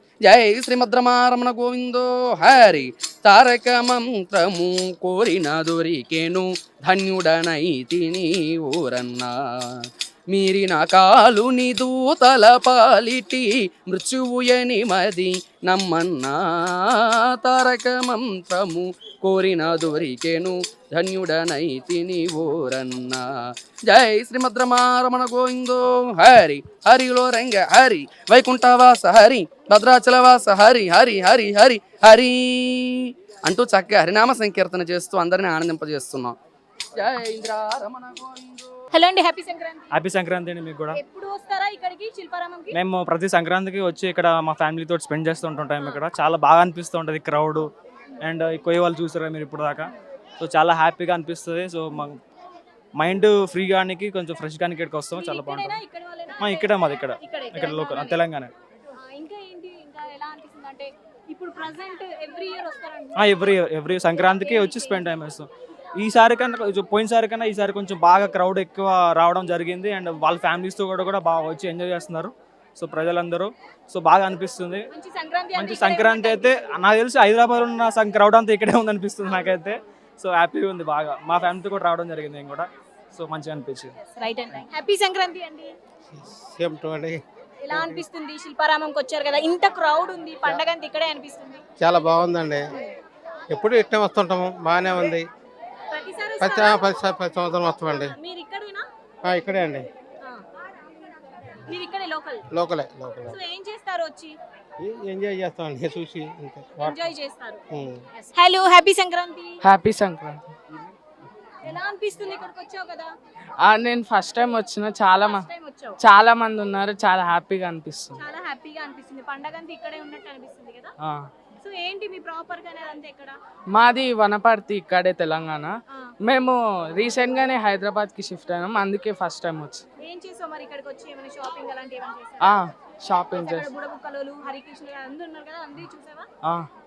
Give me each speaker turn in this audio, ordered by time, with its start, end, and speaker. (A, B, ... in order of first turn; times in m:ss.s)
0:00.3-0:23.2 A
0:23.9-0:36.3 A
0:37.0-0:38.4 A
0:38.9-0:39.9 B
0:39.9-0:41.0 C
0:40.9-0:42.8 B
0:42.7-0:47.7 C
0:48.2-0:49.9 C
0:50.4-0:52.2 C
0:53.0-0:55.8 C
0:55.1-0:58.2 B
0:56.4-0:58.5 C
0:59.0-1:03.4 B
1:03.2-1:05.5 C
1:04.1-1:05.1 B
1:06.0-1:14.8 C
1:14.9-1:16.7 B
1:15.5-1:23.9 C
1:24.1-1:25.7 B
1:26.5-1:27.2 D
1:27.6-1:31.6 B
1:31.8-1:32.6 D
1:33.5-1:35.2 D
1:35.9-1:37.0 B
1:36.4-1:38.1 D
1:37.9-1:38.8 B
1:39.3-1:39.8 D
1:41.7-1:42.4 B
1:42.6-1:43.3 D
1:43.2-1:44.4 B
1:44.9-1:47.0 D
1:46.8-1:47.6 B
1:48.2-1:49.6 B
1:49.6-1:50.4 E
1:51.6-1:53.1 B
1:53.6-1:55.4 E
1:55.1-1:56.0 B
1:56.0-1:58.2 E
1:58.2-2:00.9 B
2:01.6-2:03.4 B
2:03.7-2:05.7 E
2:06.3-2:09.8 E
2:10.0-2:12.6 B
2:12.4-2:13.7 E
2:13.3-2:16.2 B